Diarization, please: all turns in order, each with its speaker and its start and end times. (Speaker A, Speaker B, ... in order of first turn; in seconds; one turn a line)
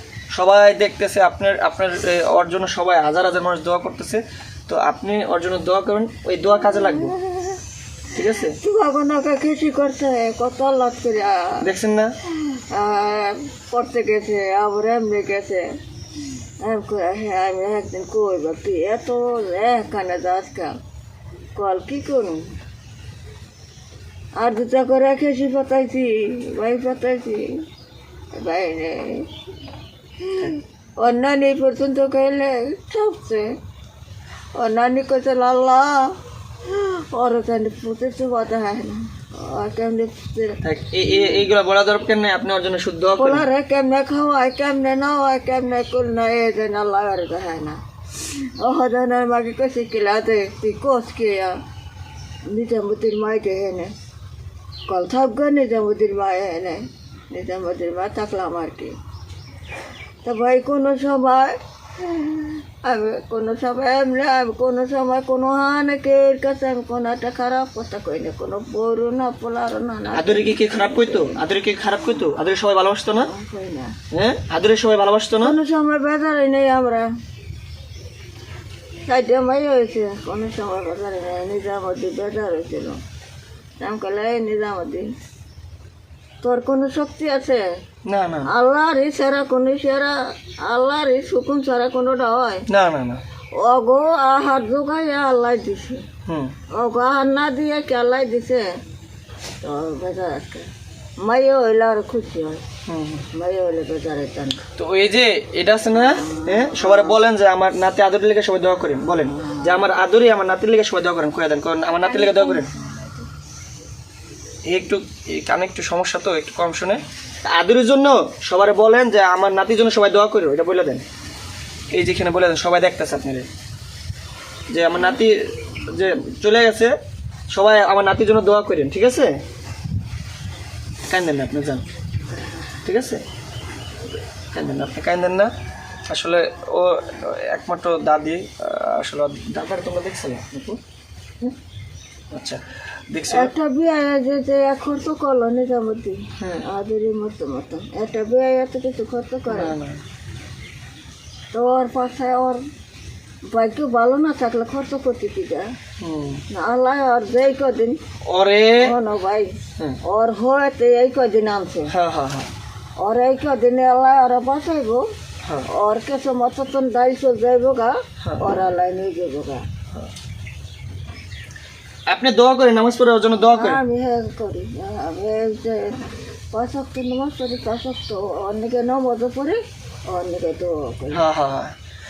Speaker A: 0.3-7.2
Speaker B: 6.6-7.6
Speaker A: 8.1-8.6
Speaker B: 8.6-11.6
Speaker A: 11.6-12.1
Speaker B: 12.4-15.6
Speaker B: 16.6-20.8
Speaker B: 21.6-22.4
Speaker B: 24.4-27.5
Speaker B: 28.3-29.3
Speaker B: 30.2-33.5
Speaker B: 34.5-41.5
Speaker A: 40.6-43.5
Speaker B: 43.2-51.5
Speaker B: 52.5-53.9
Speaker B: 54.9-59.0
Speaker B: 60.2-71.4
Speaker A: 70.1-73.3
Speaker B: 73.2-74.0
Speaker A: 74.1-75.6
Speaker B: 75.4-77.0
Speaker B: 79.1-83.0
Speaker B: 83.8-85.0
Speaker B: 86.4-87.6
Speaker A: 88.1-88.5
Speaker B: 88.5-92.7
Speaker A: 92.7-93.2
Speaker B: 93.6-96.0
Speaker A: 96.3-96.5
Speaker B: 96.8-98.7
Speaker B: 99.6-100.7
Speaker B: 101.2-102.6
Speaker A: 102.9-103.2
Speaker B: 103.3-104.6
Speaker A: 104.8-112.7
Speaker B: 106.1-107.2
Speaker B: 109.4-109.9
Speaker B: 112.1-113.2
Speaker A: 114.7-121.0
Speaker A: 121.9-123.5
Speaker A: 124.7-127.0
Speaker A: 127.5-129.4
Speaker A: 131.1-131.8
Speaker A: 132.8-133.2
Speaker A: 134.5-135.5
Speaker A: 136.1-140.8
Speaker A: 142.3-143.5
Speaker B: 143.3-149.8
Speaker A: 146.4-146.7
Speaker A: 149.5-150.0
Speaker B: 151.5-152.6
Speaker B: 153.5-155.7
Speaker A: 156.0-156.4
Speaker B: 156.5-158.0
Speaker A: 158.3-158.9
Speaker B: 158.8-159.5
Speaker B: 160.1-161.9
Speaker A: 161.9-162.5
Speaker B: 163.0-165.0
Speaker B: 165.7-169.7
Speaker A: 172.1-173.8
Speaker B: 173.4-176.0
Speaker B: 176.5-181.2
Speaker A: 181.1-181.7